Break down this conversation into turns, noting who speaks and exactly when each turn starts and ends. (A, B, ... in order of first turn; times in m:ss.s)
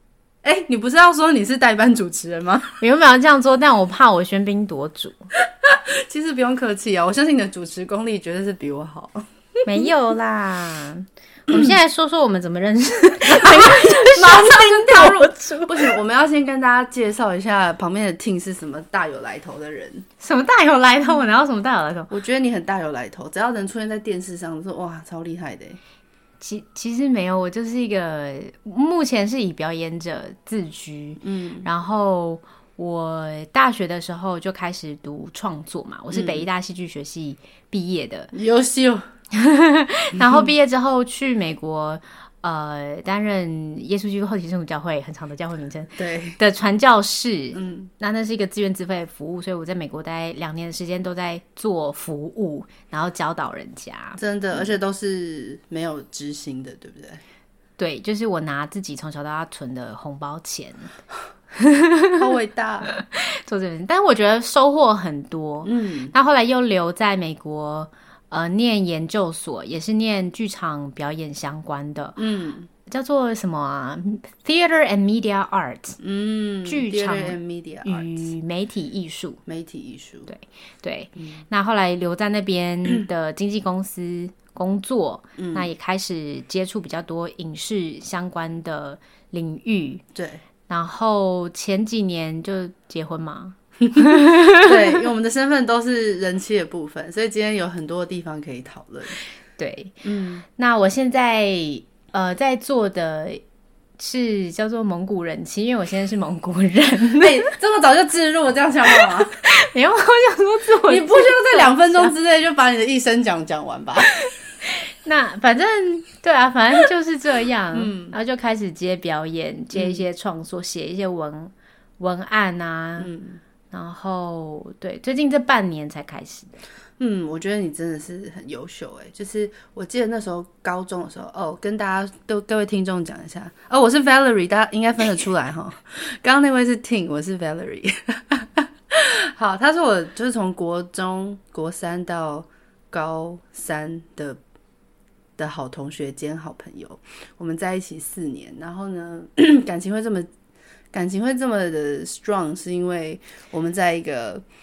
0:00.4-0:02.8 A
0:02.8-0:05.2 B
0:05.4-0:09.9 A
0:09.6-0:16.0 B
0:13.3-0:20.0 A
0:20.2-0:22.1 B
0:22.1-0:25.8 A
0:26.4-0:38.3 B
0:31.2-0:31.7 A
0:36.1-0:36.4 A
0:38.3-0:39.0 A
0:39.3-0:54.7 B
0:46.0-0:46.4 A
0:47.5-0:47.9 A
0:54.2-0:57.2 A
0:57.8-1:00.9 B
1:01.5-1:02.3 B
1:02.2-1:02.9 A
1:02.9-1:12.2 B
1:05.6-1:06.1 A
1:12.2-1:12.7 A
1:12.9-1:16.0 B
1:16.0-1:18.3 A
1:16.6-1:19.4 B
1:19.5-1:20.3 A
1:20.3-1:30.0 B
1:21.2-1:21.4 A
1:25.4-1:25.7 A
1:30.1-1:30.4 A
1:30.7-1:35.0 B
1:33.9-1:39.2 A
1:39.6-1:43.4 B
1:40.0-1:40.4 A
1:44.0-1:47.5 B
1:47.1-1:49.3 A
1:48.9-1:52.1 B
1:50.9-1:54.2 A
1:54.6-2:03.1 B
1:57.7-1:58.2 A
1:59.7-2:00.0 A
2:03.0-2:03.4 A
2:03.7-2:06.6 B
2:07.0-2:24.4 A
2:25.4-2:30.3 A
2:30.9-2:34.4 A